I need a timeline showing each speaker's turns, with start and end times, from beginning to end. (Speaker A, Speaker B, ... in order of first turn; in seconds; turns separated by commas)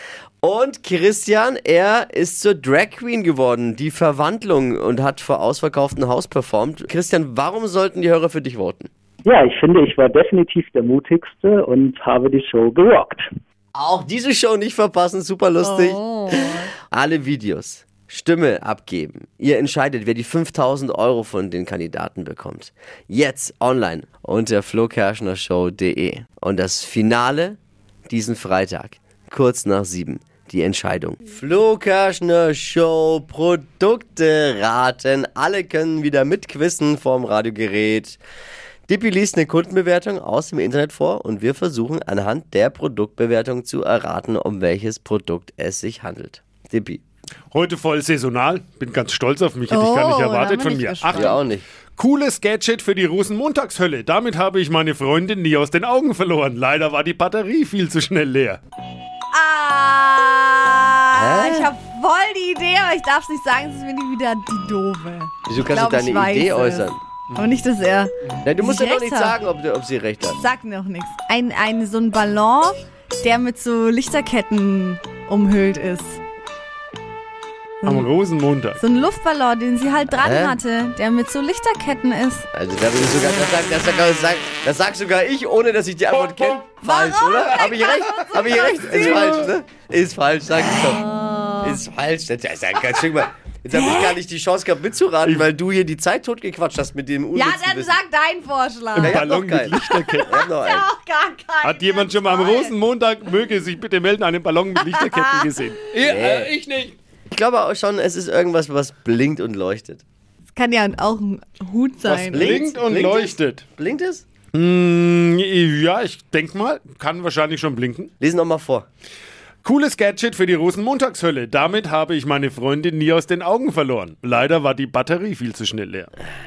Speaker A: 0.4-8.9, Speaker B: 9.2-13.3, Speaker A: 13.8-27.6, Speaker C: 15.6-16.7, Speaker A: 28.1-38.2, Speaker A: 38.9-47.0, Speaker D: 47.5-51.4, Speaker C: 49.7-51.4, Speaker A: 51.1-51.6, Speaker D: 52.0-58.6, Speaker C: 59.3-69.4, Speaker A: 61.1-61.7, Speaker A: 65.5-67.0, Speaker A: 68.4-70.4, Speaker C: 70.4-76.2, Speaker C: 77.8-78.1, Speaker D: 77.8-78.8, Speaker C: 78.8-82.5, Speaker A: 80.2-80.6, Speaker A: 82.5-91.0, Speaker C: 86.8-89.5, Speaker C: 90.9-91.8, Speaker A: 91.6-98.0, Speaker C: 93.7-94.2, Speaker D: 95.2-95.5, Speaker C: 97.3-99.3, Speaker D: 98.9-100.3, Speaker A: 99.0-100.9, Speaker C: 100.3-102.7, Speaker D: 101.6-107.0, Speaker C: 104.9-105.4, Speaker A: 106.0-106.5, Speaker A: 107.3-110.0, Speaker C: 110.5-112.6, Speaker D: 112.0-113.6, Speaker A: 112.3-114.2, Speaker D: 114.5-118.1, Speaker A: 118.2-118.9, Speaker D: 119.6-126.1